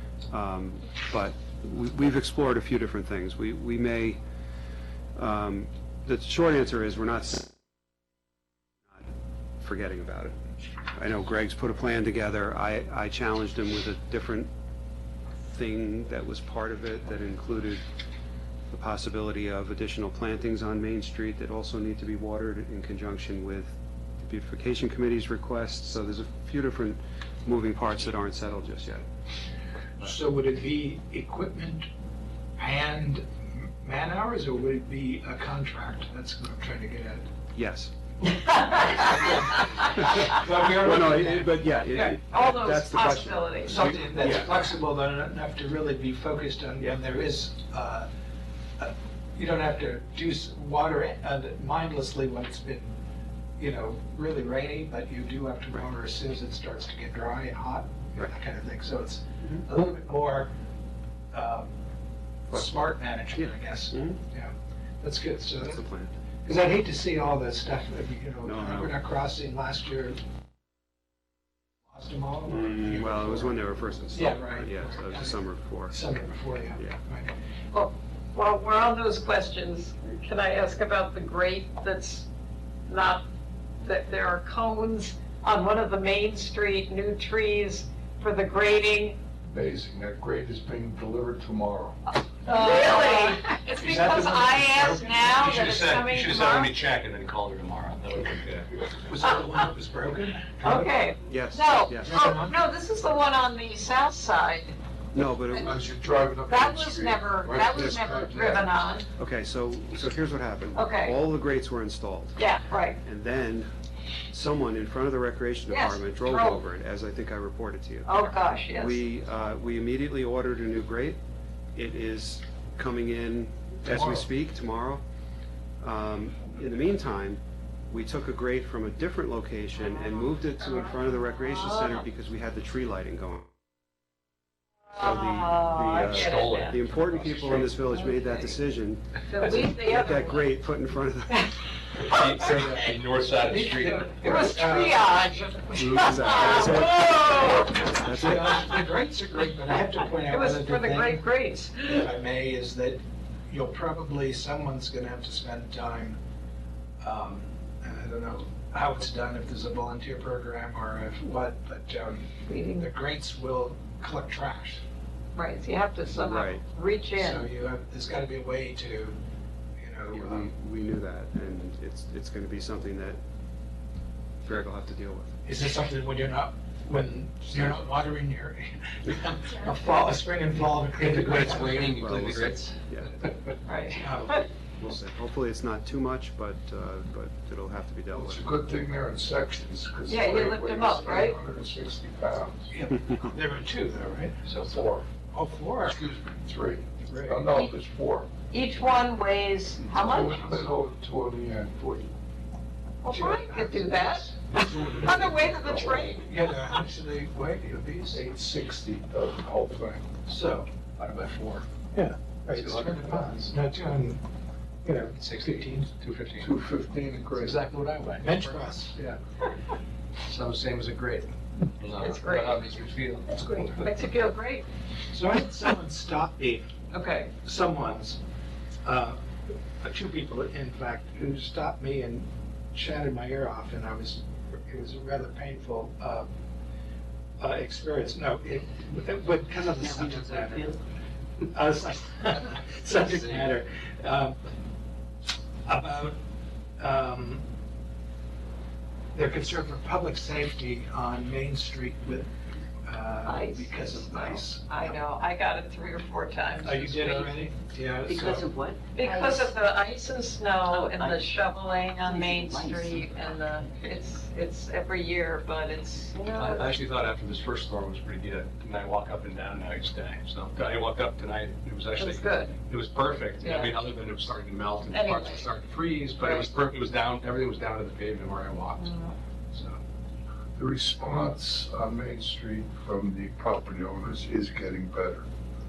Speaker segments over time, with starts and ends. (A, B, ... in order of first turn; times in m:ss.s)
0:00.3-0:04.2 A
0:05.2-0:07.6 A
0:09.6-0:10.4 A
0:10.9-0:14.5 A
0:15.5-0:17.8 A
0:18.7-0:29.0 A
0:30.0-0:31.9 B
0:32.6-0:37.3 B
0:37.5-0:37.9 A
0:38.8-0:42.1 B
0:39.8-0:44.7 A
0:41.9-0:43.9 C
0:43.6-0:48.1 B
0:48.8-0:52.9 B
0:53.6-1:00.5 B
1:01.3-1:01.7 B
1:02.5-1:05.8 B
1:03.4-1:04.2 A
1:05.6-1:06.1 A
1:06.5-1:10.2 B
1:08.4-1:09.0 A
1:11.9-1:13.6 B
1:12.5-1:16.0 A
1:14.1-1:15.4 B
1:15.9-1:17.3 B
1:17.7-1:22.3 C
1:22.9-1:23.3 C
1:23.8-1:29.2 C
1:29.5-1:32.0 D
1:32.5-1:36.7 C
1:32.5-1:35.5 B
1:35.3-1:38.7 E
1:38.9-1:41.0 B
1:40.6-1:44.8 C
1:41.2-1:42.2 A
1:42.0-1:42.6 B
1:45.1-1:45.8 A
1:45.5-1:48.9 D
1:46.5-1:49.1 C
1:49.2-1:52.4 A
1:50.8-1:51.2 C
1:52.4-1:53.0 C
1:53.0-1:53.7 A
1:54.3-2:01.2 A
1:55.7-1:56.6 C
1:58.1-1:59.0 C
2:01.8-2:05.0 A
2:05.8-2:13.5 A
2:10.6-2:12.1 C
2:14.9-2:16.8 C
2:15.0-2:21.6 A
2:16.0-2:17.8 E
2:17.9-2:18.5 C
2:19.3-2:20.5 C
2:22.0-2:24.6 E
2:22.4-2:25.1 B
2:24.1-2:28.2 C
2:25.8-2:26.3 E
2:25.8-2:28.7 A
2:26.1-2:26.8 B
2:28.1-2:36.2 B
2:30.2-2:32.0 C
2:37.0-2:44.8 B
2:42.5-2:42.9 C
2:45.4-2:47.5 C
2:46.1-2:46.6 A
2:47.2-2:49.2 B
2:49.8-2:50.5 B
2:50.1-2:53.2 A
2:54.4-2:55.4 A
2:55.4-3:02.4 B
2:56.9-2:57.8 A
3:01.0-3:03.3 E
3:01.9-3:03.2 A
3:03.7-3:04.4 C
3:03.9-3:04.4 B
3:04.1-3:08.6 A
3:08.1-3:12.7 D
3:10.1-3:11.4 C
3:12.7-3:14.6 B
3:14.6-3:15.1 D
3:15.2-3:16.0 B
3:15.9-3:18.3 D
3:17.1-3:17.6 B
3:18.5-3:20.7 C
3:19.8-3:22.1 D
3:23.0-3:24.4 C
3:23.1-3:24.4 B
3:24.5-3:26.2 D
3:25.0-3:26.8 C
3:26.2-3:28.2 B
3:28.1-3:30.1 D
3:30.2-3:30.7 B
3:31.0-3:31.7 E
3:31.9-3:34.2 B
3:32.5-3:33.5 E
3:34.8-3:36.0 B
3:36.0-3:36.6 E
3:36.4-3:37.6 D
3:37.3-3:39.2 E
3:38.2-3:39.0 B
3:40.3-3:43.9 E
3:41.9-3:42.7 C
3:43.3-3:44.7 C
3:45.1-3:46.7 B
3:46.9-3:47.4 C
3:47.4-3:48.2 B
3:48.8-3:49.2 B
3:49.8-3:56.3 B
3:57.4-4:00.7 B
3:59.8-4:00.8 F
4:01.5-4:04.4 B
4:05.7-4:06.2 B
4:06.8-4:07.5 B
4:09.1-4:12.3 B
4:12.8-4:15.0 B
4:13.2-4:17.3 C
4:16.6-4:18.5 B
4:18.0-4:19.5 F
4:18.9-4:26.6 C
4:20.7-4:21.2 F
4:22.0-4:23.6 F
4:26.3-4:38.9 E
4:32.0-4:32.6 C
4:33.4-4:33.8 C
4:34.9-4:35.5 C
4:36.2-4:36.5 C
4:38.8-4:39.2 C
4:39.5-4:39.8 E
4:40.6-4:45.3 D